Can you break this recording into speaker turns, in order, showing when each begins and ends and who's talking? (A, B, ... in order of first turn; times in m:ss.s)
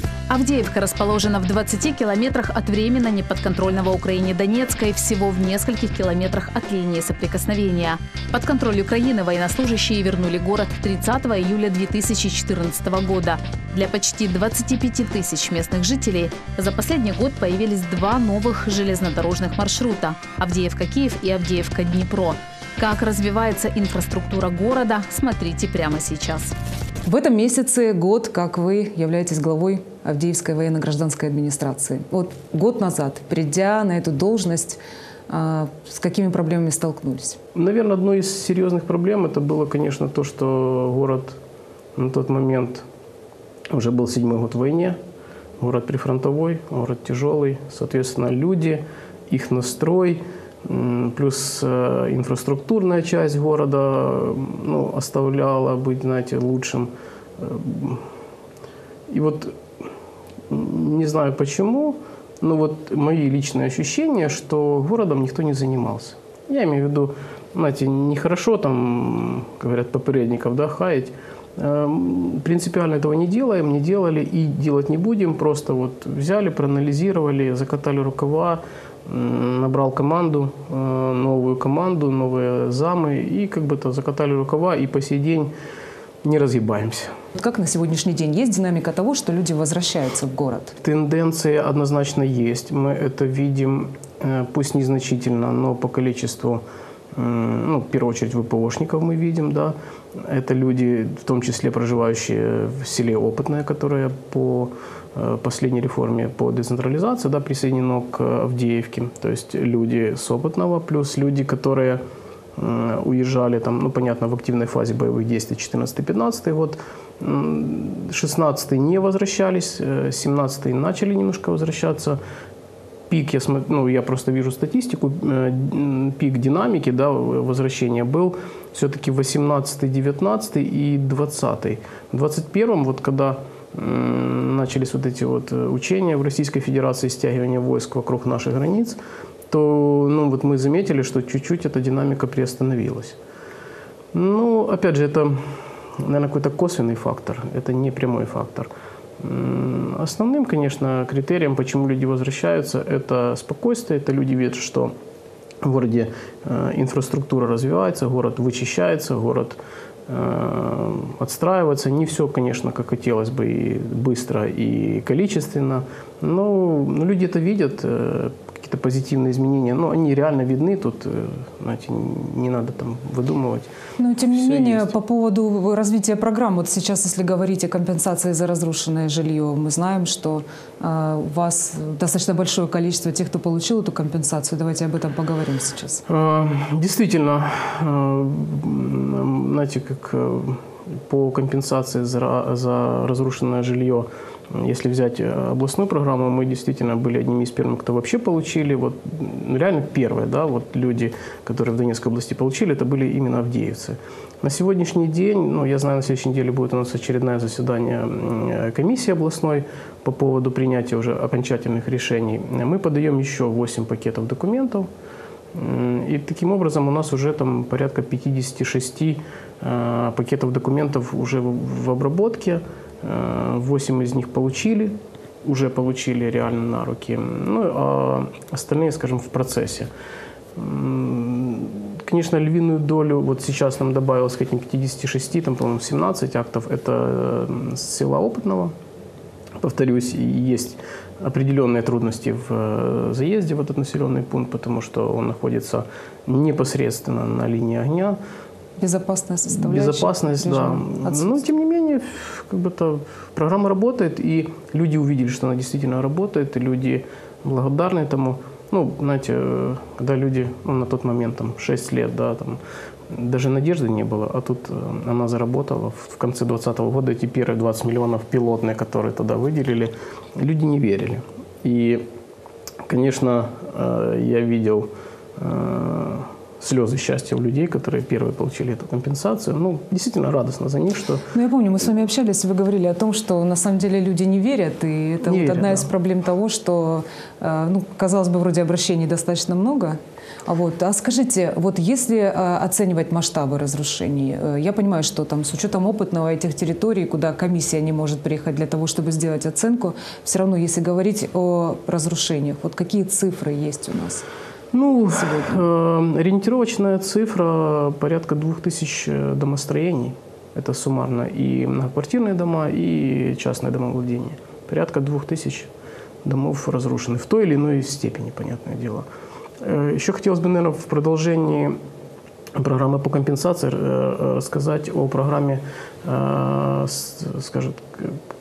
0:00.3-0:26.5 A
0:27.0-0:37.4 B
0:37.5-0:41.4 C
0:42.0-0:42.9 C
0:43.7-0:45.0 C
0:45.6-0:58.0 C
0:59.1-0:59.5 C
1:00.5-1:25.5 C
1:26.2-1:27.1 C
1:27.3-1:30.8 B
1:30.8-1:36.6 C
1:37.1-1:52.0 C
1:52.6-2:02.2 C
2:03.1-2:19.0 C
2:19.5-2:23.2 C
2:24.1-2:25.4 C
2:26.0-2:34.9 C
2:35.6-2:53.7 C
2:54.0-3:06.0 B
2:54.3-2:54.9 C
3:06.1-3:34.9 C
3:35.5-3:49.9 C
3:50.6-3:58.7 C
3:59.6-4:08.2 C
4:08.8-4:11.4 B
4:09.6-4:22.6 C
4:23.1-4:32.0 C
4:32.9-4:41.3 C
4:41.3-5:04.2 B
4:45.2-4:45.9 C
5:04.7-5:15.7 C
5:05.2-5:05.6 B
5:16.2-5:19.1 C
5:19.6-5:21.8 C
5:22.6-5:28.2 C